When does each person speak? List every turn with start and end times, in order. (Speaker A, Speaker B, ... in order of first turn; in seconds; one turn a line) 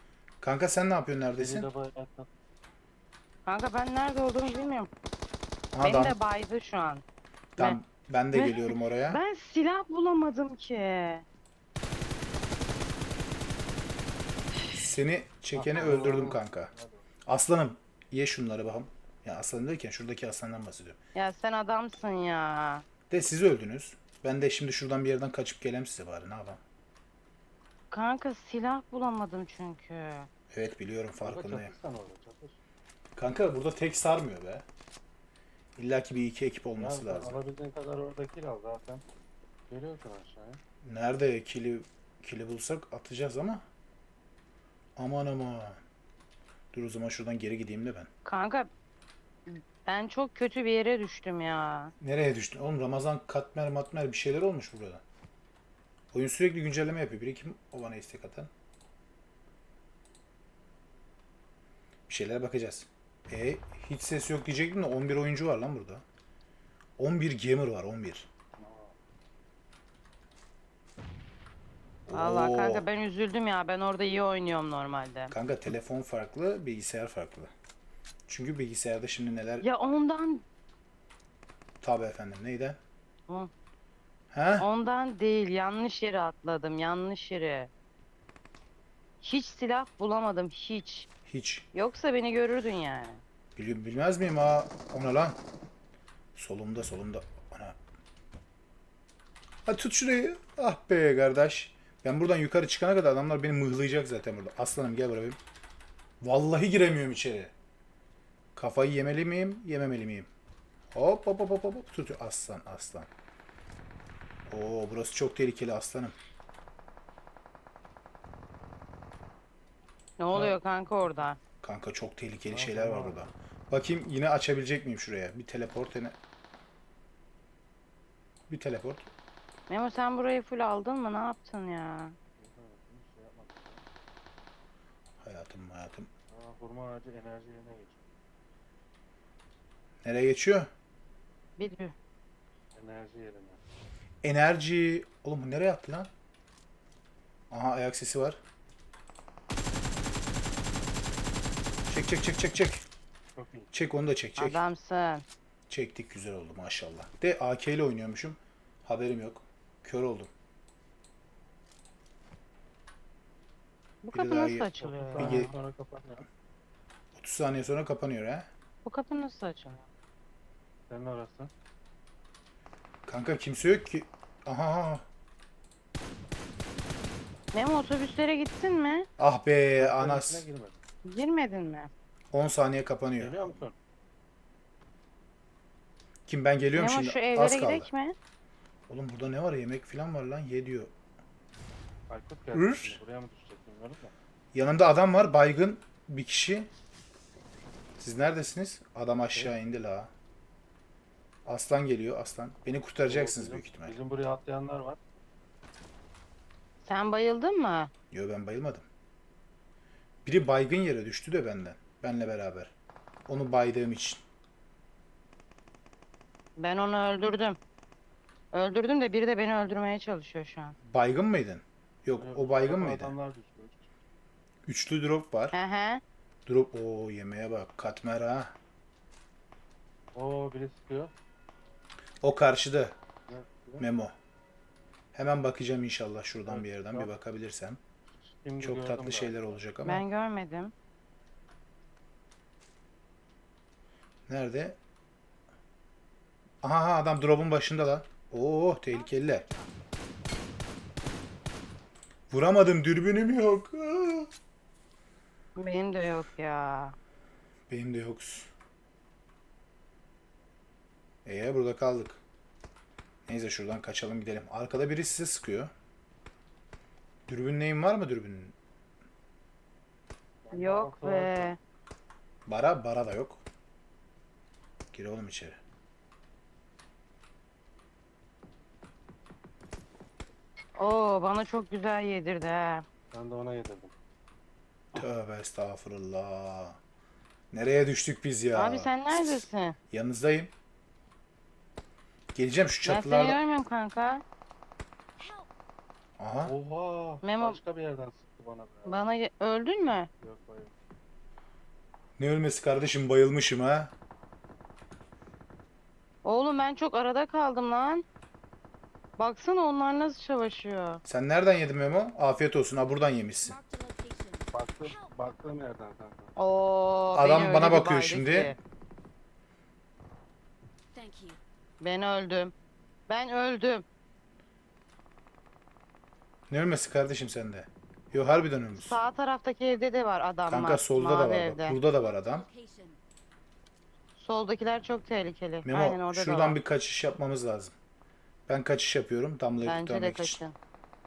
Speaker A: 0.4-1.7
Speaker B: 1.4-2.3
Speaker C: 3.5-4.9
Speaker A: 5.7-6.1
Speaker C: 5.8-7.0
Speaker A: 7.6-9.2
Speaker C: 8.3-11.2
Speaker A: 14.7-16.7
Speaker B: 15.5-17.0
Speaker A: 17.2-21.0
Speaker C: 21.1-22.8
Speaker A: 23.1-26.6
Speaker C: 27.9-30.3
Speaker A: 30.5-31.7
Speaker B: 31.2-32.6
Speaker A: 33.1-34.6
Speaker A: 35.8-37.4
Speaker B: 36.8-39.0
Speaker B: 39.7-40.6
Speaker A: 40.8-43.6
Speaker A: 45.0-45.8
Speaker A: 46.7-48.1
Speaker C: 48.2-48.7
Speaker C: 49.5-51.9
Speaker A: 52.0-55.0
Speaker A: 56.1-58.5
Speaker A: 62.1-66.0
Speaker A: 67.0-68.3
Speaker B: 68.6-68.9
Speaker A: 72.1-72.9
Speaker C: 72.1-75.3
Speaker A: 75.3-77.5
Speaker A: 78.3-79.7
Speaker C: 79.6-80.4
Speaker A: 81.8-82.8
Speaker A: 84.3-84.7
Speaker C: 84.6-87.7
Speaker C: 89.2-91.1
Speaker A: 91.3-91.7
Speaker C: 91.7-93.2
Speaker A: 93.5-95.4
Speaker A: 96.3-97.8
Speaker A: 99.7-105.4
Speaker A: 106.2-107.5
Speaker A: 108.5-110.3
Speaker A: 110.9-113.1
Speaker A: 114.5-116.2
Speaker C: 120.2-121.4
Speaker A: 121.6-126.2
Speaker B: 122.5-123.2
Speaker A: 128.5-129.1
Speaker C: 129.7-132.2
Speaker B: 132.4-133.8
Speaker A: 135.2-136.1
Speaker B: 136.3-138.0
Speaker A: 140.0-140.7
Speaker C: 141.6-141.9
Speaker B: 142.7-143.6
Speaker A: 144.2-146.1
Speaker A: 147.5-148.4
Speaker A: 151.9-152.8
Speaker B: 153.3-153.7
Speaker A: 153.7-154.6
Speaker C: 154.4-155.2
Speaker A: 155.7-160.3
Speaker C: 164.0-165.5
Speaker A: 164.1-165.5
Speaker B: 164.8-166.3
Speaker A: 167.2-168.5
Speaker C: 168.8-169.8
Speaker B: 170.9-171.5
Speaker A: 173.1-175.0
Speaker C: 177.5-179.1
Speaker A: 179.2-180.4
Speaker B: 179.8-180.8
Speaker C: 181.0-181.9
Speaker A: 182.3-183.6
Speaker B: 183.2-183.7
Speaker A: 186.3-187.9
Speaker C: 186.7-188.1
Speaker A: 188.9-190.9
Speaker B: 192.1-194.1
Speaker A: 192.5-193.0
Speaker A: 194.5-196.7
Speaker A: 198.0-200.1
Speaker A: 201.4-204.0
Speaker B: 203.0-205.0
Speaker C: 206.8-207.9
Speaker A: 208.1-208.8
Speaker A: 210.2-212.7
Speaker A: 213.3-214.2
Speaker C: 216.6-217.6
Speaker C: 218.5-220.7
Speaker A: 220.9-223.1
Speaker B: 222.2-223.9
Speaker A: 224.6-225.6
Speaker C: 225.5-226.0
Speaker A: 226.4-228.5
Speaker B: 230.1-231.1
Speaker A: 232.2-232.9
Speaker B: 233.3-233.8
Speaker A: 233.8-234.1
Speaker A: 235.1-237.8
Speaker B: 236.5-237.1
Speaker B: 238.2-239.6
Speaker A: 238.6-240.0
Speaker C: 239.8-240.7
Speaker A: 244.3-244.8
Speaker A: 246.6-249.4
Speaker D: 248.9-249.7
Speaker A: 252.3-254.3
Speaker C: 255.5-256.9
Speaker A: 257.7-258.5
Speaker A: 261.2-262.2
Speaker A: 263.2-265.7
Speaker A: 267.3-268.6
Speaker B: 270.5-271.6
Speaker C: 270.5-271.6
Speaker A: 272.4-273.4
Speaker A: 274.9-275.6
Speaker C: 280.8-282.8
Speaker B: 283.1-283.9
Speaker A: 284.9-286.8
Speaker A: 287.5-290.5
Speaker C: 288.5-289.8
Speaker A: 292.3-293.4
Speaker C: 292.8-294.2
Speaker D: 295.2-295.5
Speaker A: 296.2-296.5
Speaker B: 296.4-299.0
Speaker C: 297.2-297.6
Speaker C: 298.9-300.1
Speaker B: 300.2-300.7
Speaker A: 302.2-303.9
Speaker C: 306.2-308.0
Speaker C: 309.2-311.0
Speaker A: 311.0-313.6
Speaker D: 313.4-315.2
Speaker B: 314.5-316.3
Speaker C: 316.4-318.6
Speaker A: 317.1-318.6
Speaker D: 320.9-321.4
Speaker C: 321.8-322.5
Speaker C: 323.1-323.8
Speaker A: 326.5-329.0
Speaker C: 328.7-331.8
Speaker A: 330.5-332.5
Speaker D: 332.1-333.0
Speaker C: 334.2-336.6
Speaker A: 335.6-337.7
Speaker A: 338.5-340.4
Speaker C: 339.6-340.6